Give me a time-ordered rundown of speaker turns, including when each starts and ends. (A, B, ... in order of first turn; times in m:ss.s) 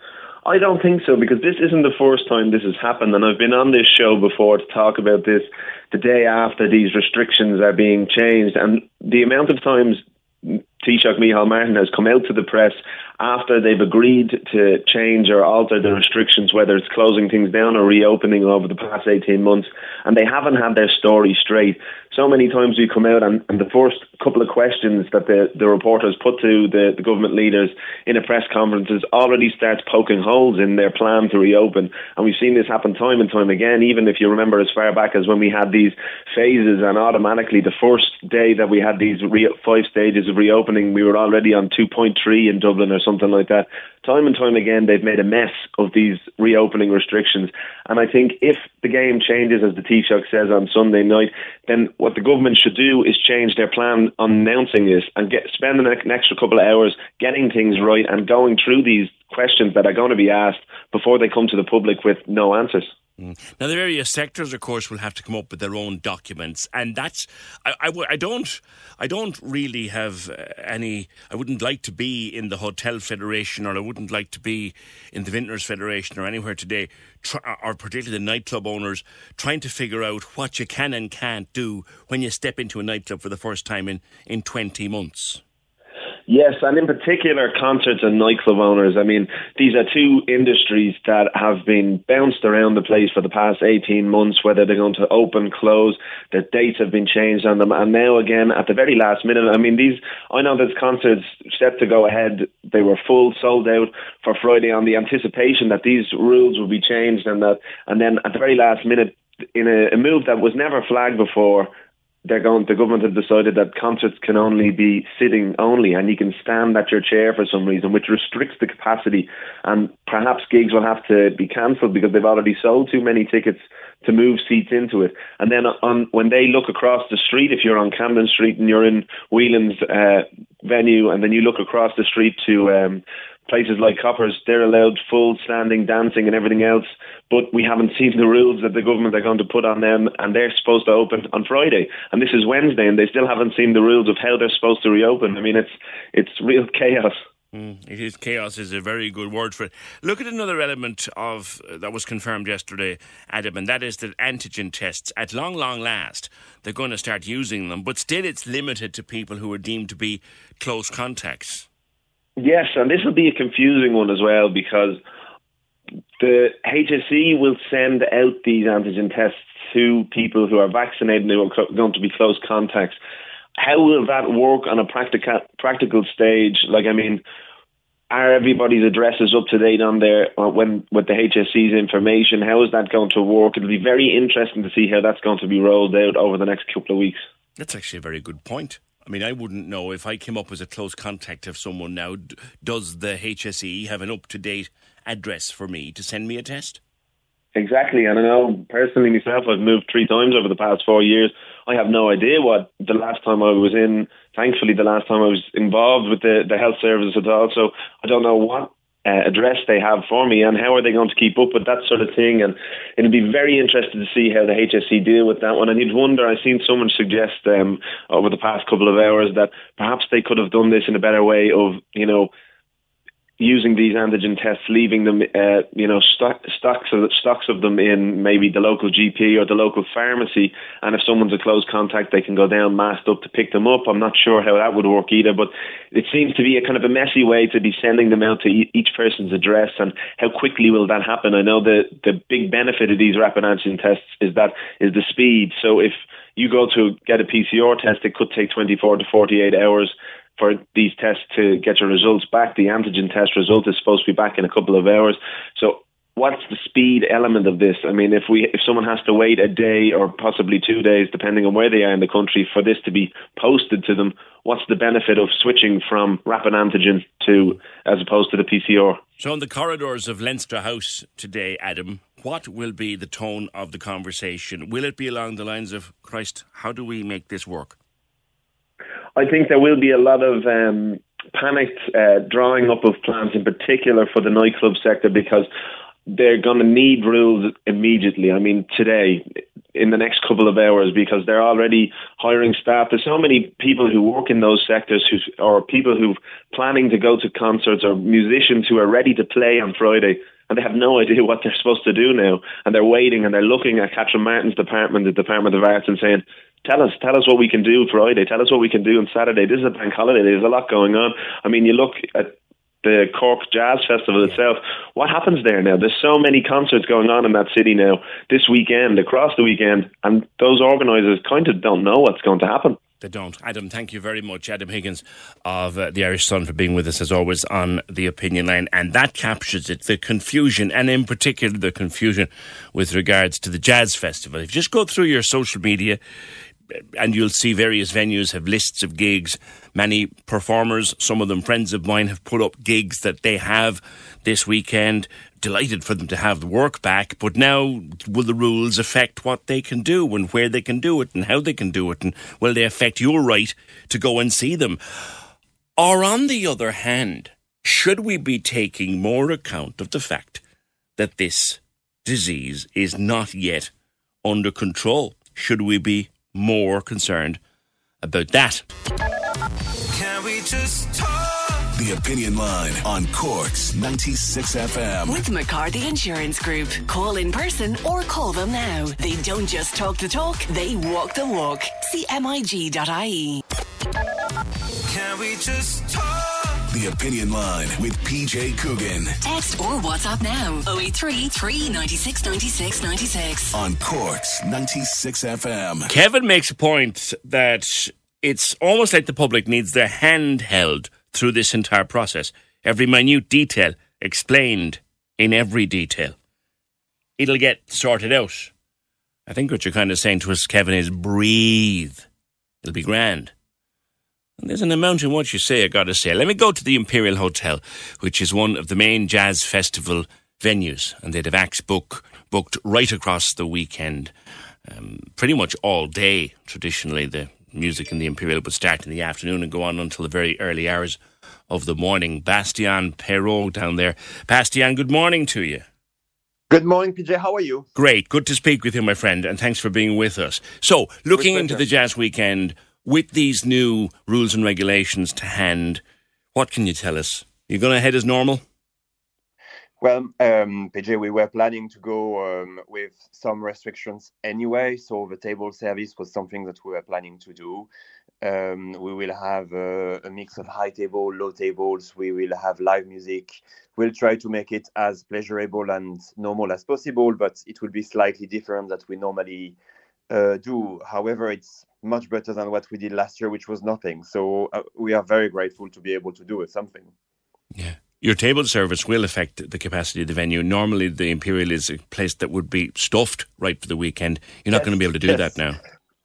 0:00.4-1:02.9 A
1:03.2-1:25.4 B
1:26.3-1:51.7 A
1:52.2-2:27.2 A
2:27.5-2:41.7 B
2:42.4-2:45.0 A
2:46.2-2:53.0 A
2:53.6-2:57.2 A
2:58.1-3:07.2 A
3:07.6-3:16.8 B
3:17.6-3:42.3 A
3:43.4-4:29.0 A
4:29.2-4:37.8 B
4:39.2-4:45.5 A
4:46.1-4:49.2 A
4:49.8-5:12.3 A
5:12.8-5:22.8 A
5:23.0-5:36.0 B
5:36.8-5:55.2 B
5:55.8-6:00.4 B
6:01.0-6:03.7 B
6:04.2-6:07.4 B
6:08.0-6:08.7 B
6:11.7-6:15.2 C
6:15.1-6:23.4 D
6:26.7-6:29.2 C
6:29.2-6:33.5 D
6:33.5-6:35.9 C
6:35.9-6:46.2 B
6:47.2-6:48.5 B
6:49.3-6:52.1 B
6:52.6-6:53.3 B
6:54.4-7:04.1 B
7:04.7-7:11.0 B
7:11.5-7:15.6 B
7:16.5-7:17.7 E
7:17.8-7:25.8 B
7:21.2-7:21.6 E
7:26.3-7:28.4 B
7:29.8-7:37.7 E
7:38.2-7:49.6 E
7:50.1-7:56.9 E
7:57.6-8:05.6 B
8:04.5-8:05.4 E